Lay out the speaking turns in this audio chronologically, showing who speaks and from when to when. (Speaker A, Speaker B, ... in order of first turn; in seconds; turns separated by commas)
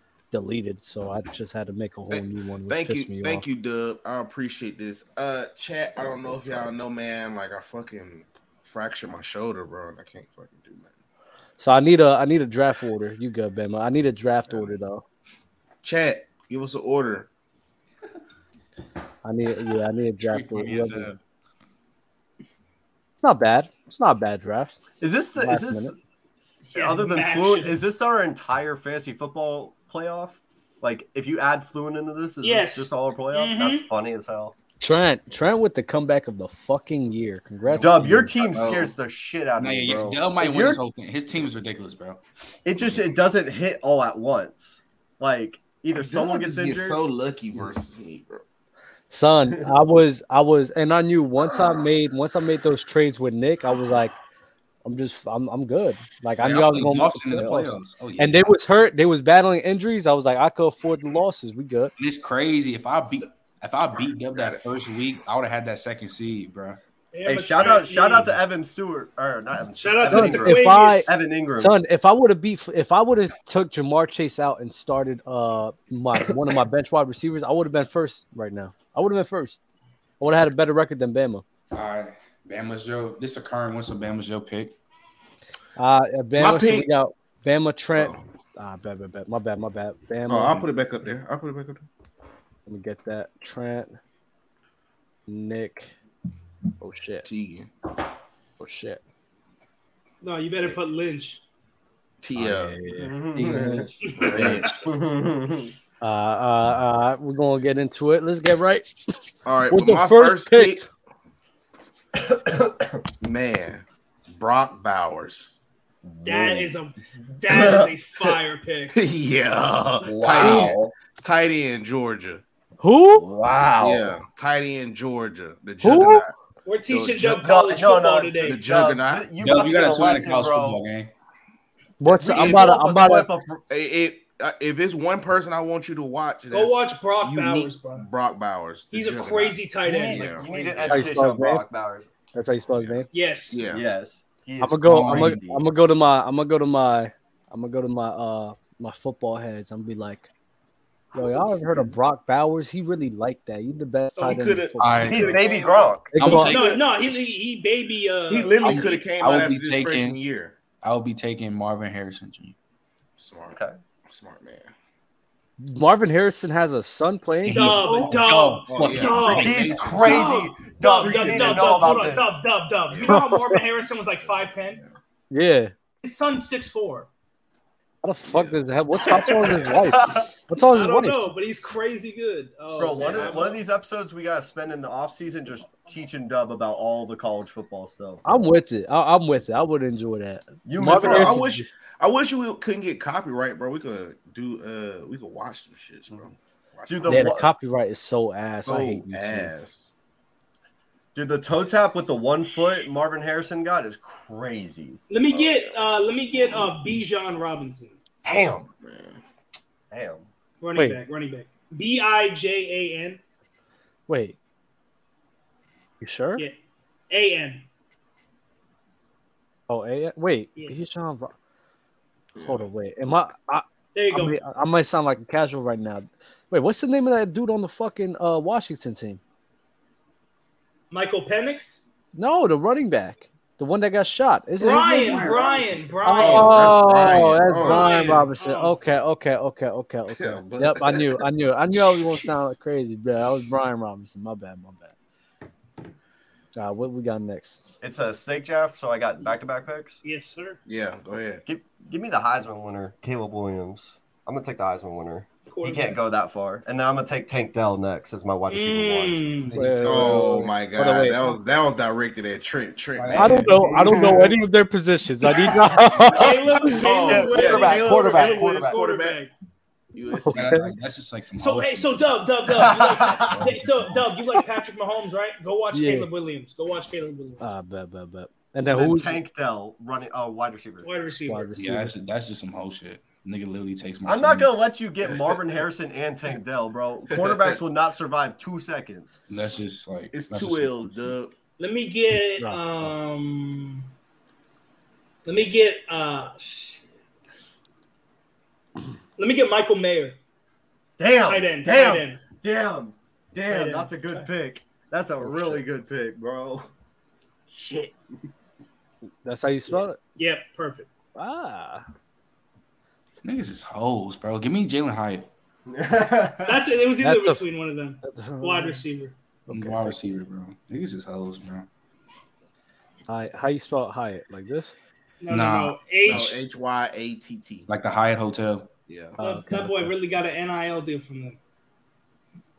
Speaker A: 0.3-3.4, Speaker B: 2.1-10.9, Speaker C: 6.0-6.7, Speaker A: 11.6-15.0, Speaker B: 14.5-14.7, Speaker B: 15.8-17.3, Speaker A: 19.2-21.1, Speaker D: 20.2-21.2, Speaker A: 23.2-24.8, Speaker C: 25.0-25.9, Speaker A: 25.4-25.9, Speaker C: 26.7-34.5, Speaker E: 26.7-27.8, Speaker E: 32.4-33.9, Speaker A: 34.8-38.3, Speaker D: 37.7-38.9, Speaker C: 37.7-40.8, Speaker B: 38.5-38.8, Speaker D: 39.6-42.2, Speaker C: 42.6-47.0, Speaker B: 45.9-48.4, Speaker A: 49.1-54.2, Speaker A: 54.8-61.9, Speaker D: 56.4-58.5, Speaker D: 62.0-66.8, Speaker B: 64.3-64.6, Speaker E: 67.1-68.3, Speaker C: 67.2-71.7, Speaker E: 69.8-71.1, Speaker A: 70.1-79.6, Speaker A: 80.2-81.4, Speaker D: 81.7-84.7, Speaker A: 85.8-90.7, Speaker B: 86.4-86.9, Speaker B: 90.3-91.8, Speaker A: 92.7-94.0, Speaker A: 95.3-95.9, Speaker A: 96.8-97.2, Speaker B: 97.2-97.7, Speaker A: 98.6-99.0, Speaker E: 100.2-101.4, Speaker B: 102.2-102.8, Speaker A: 102.3-103.1, Speaker D: 102.4-104.6, Speaker C: 103.0-105.7, Speaker B: 103.5-104.8, Speaker E: 104.0-104.6, Speaker A: 106.0-110.8, Speaker B: 109.4-110.8, Speaker C: 112.1-113.0, Speaker B: 113.2-115.6, Speaker C: 116.0-116.7, Speaker E: 116.2-119.0, Speaker C: 117.5-117.9, Speaker B: 118.9-122.4, Speaker C: 120.0-120.9, Speaker A: 120.3-120.7, Speaker A: 122.8-123.2, Speaker C: 123.2-124.2, Speaker B: 123.8-126.3, Speaker A: 125.8-126.3, Speaker E: 126.6-128.6, Speaker B: 126.9-127.4, Speaker C: 127.2-130.8, Speaker B: 128.4-129.3, Speaker D: 129.4-131.1, Speaker A: 132.0-133.3, Speaker C: 132.1-133.6, Speaker B: 132.2-132.8, Speaker B: 133.7-141.1, Speaker E: 136.5-138.1, Speaker E: 138.9-140.8, Speaker C: 139.8-142.1, Speaker A: 140.8-141.6, Speaker A: 142.3-143.1, Speaker B: 142.7-143.8, Speaker E: 143.1-143.6, Speaker C: 143.7-145.6, Speaker A: 144.6-150.3, Speaker D: 144.8-145.4, Speaker C: 151.1-151.9, Speaker A: 151.1-155.5, Speaker B: 154.2-156.0, Speaker D: 154.8-155.3, Speaker C: 155.1-156.1, Speaker A: 156.1-156.8, Speaker D: 156.2-156.8, Speaker E: 156.4-159.1, Speaker B: 158.3-160.6, Speaker D: 158.6-160.2, Speaker D: 160.8-162.5, Speaker B: 163.2-164.7, Speaker A: 165.6-168.2, Speaker D: 167.3-170.2, Speaker E: 167.5-174.8, Speaker B: 168.7-170.4, Speaker C: 169.3-172.3, Speaker B: 171.0-172.2, Speaker B: 172.9-173.2, Speaker A: 173.1-173.6, Speaker B: 174.2-174.9, Speaker A: 175.3-175.7, Speaker E: 176.0-177.1, Speaker A: 178.0-181.3, Speaker B: 178.3-178.6, Speaker E: 179.0-179.7, Speaker C: 179.9-180.2, Speaker E: 180.6-183.6, Speaker C: 182.8-188.3, Speaker A: 188.2-191.7, Speaker C: 190.6-191.4, Speaker B: 190.8-197.4, Speaker C: 196.9-197.5, Speaker A: 197.1-199.5, Speaker B: 198.6-199.9, Speaker C: 201.1-205.0, Speaker E: 205.1-208.0, Speaker B: 205.3-206.7, Speaker C: 208.2-208.7, Speaker B: 208.8-209.2, Speaker C: 209.9-210.2, Speaker E: 210.6-213.2, Speaker A: 210.8-211.0, Speaker A: 214.1-214.3, Speaker A: 216.0-216.4, Speaker E: 217.1-217.6, Speaker A: 219.7-221.3, Speaker B: 222.3-222.7, Speaker A: 222.4-229.2, Speaker E: 223.9-224.4, Speaker E: 230.9-231.8, Speaker A: 232.1-235.4, Speaker E: 234.6-236.8, Speaker D: 235.1-235.7, Speaker A: 236.0-244.9, Speaker B: 236.2-238.3, Speaker E: 237.6-238.8, Speaker B: 240.1-241.2, Speaker B: 241.9-242.5, Speaker A: 246.5-247.8, Speaker C: 247.8-250.0, Speaker E: 250.0-250.6, Speaker B: 250.7-251.4, Speaker C: 251.4-259.2, Speaker E: 255.5-256.0, Speaker E: 258.5-259.6, Speaker D: 259.4-260.4, Speaker A: 259.5-261.4, Speaker B: 259.8-264.3, Speaker D: 262.9-264.2, Speaker A: 263.1-266.8, Speaker E: 265.3-269.3, Speaker B: 266.7-269.2, Speaker C: 266.8-268.8, Speaker B: 269.9-270.6, Speaker A: 270.2-270.7, Speaker D: 270.3-272.0, Speaker E: 271.4-277.5, Speaker C: 272.5-273.4, Speaker D: 273.3-274.0, Speaker A: 275.7-276.1, Speaker A: 277.4-279.2, Speaker C: 278.6-280.9, Speaker E: 280.8-281.6, Speaker A: 281.3-281.9, Speaker D: 281.6-284.5, Speaker C: 284.0-289.2, Speaker B: 287.1-287.6, Speaker D: 289.3-291.1, Speaker B: 290.1-291.3, Speaker E: 291.6-293.9, Speaker A: 292.4-292.9, Speaker E: 295.2-296.9, Speaker E: 299.2-300.2, Speaker C: 301.0-306.7, Speaker E: 301.2-302.2, Speaker E: 303.5-304.2, Speaker A: 305.2-305.6, Speaker B: 307.6-307.9, Speaker A: 309.2-310.0, Speaker E: 310.2-310.9, Speaker A: 311.1-311.8, Speaker D: 313.2-315.3, Speaker C: 315.7-316.6, Speaker E: 316.4-319.1, Speaker A: 317.0-317.4, Speaker A: 318.0-318.8, Speaker A: 319.5-320.2, Speaker D: 319.5-321.7, Speaker A: 323.1-324.8, Speaker E: 325.2-326.4, Speaker D: 325.3-325.8, Speaker B: 326.0-327.7, Speaker D: 327.7-328.7, Speaker B: 328.9-329.2, Speaker A: 329.2-329.9, Speaker E: 329.2-331.4